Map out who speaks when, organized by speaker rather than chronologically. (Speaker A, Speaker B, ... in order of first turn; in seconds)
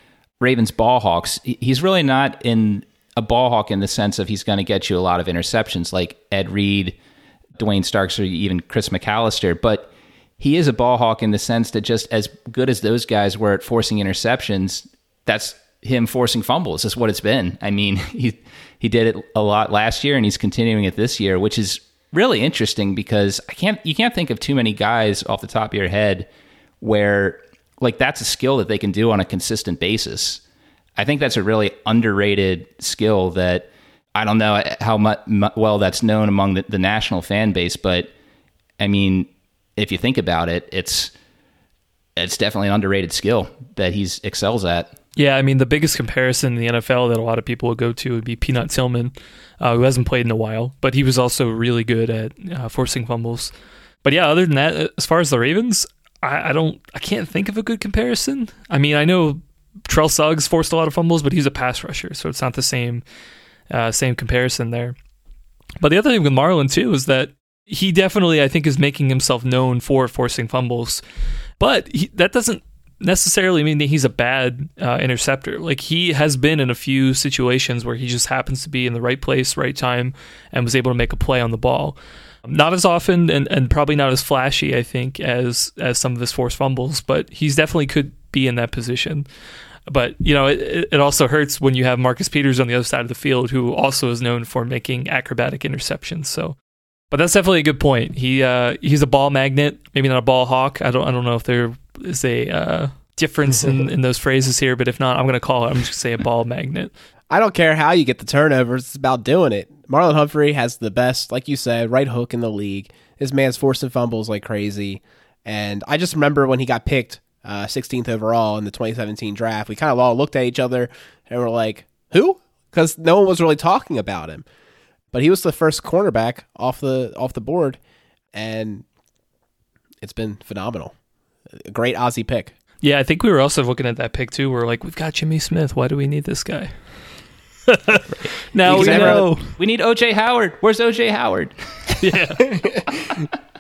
Speaker A: 0.4-7.0, 7.6-26.3, 26.8-30.4, 31.0-38.1, 38.8-41.1, 42.1-44.9, 138.1-141.5
Speaker B: 45.1-53.5, 54.0-63.0, 63.7-65.0, 65.8-71.0, 71.6-89.3, 89.9-96.6, 97.1-106.9, 132.8-136.7, 137.7-139.5, 142.0-142.5
Speaker C: 107.3-124.5, 125.1-127.8, 128.3-128.8, 130.0-130.9, 131.6-132.5, 138.6-139.3, 142.3-143.2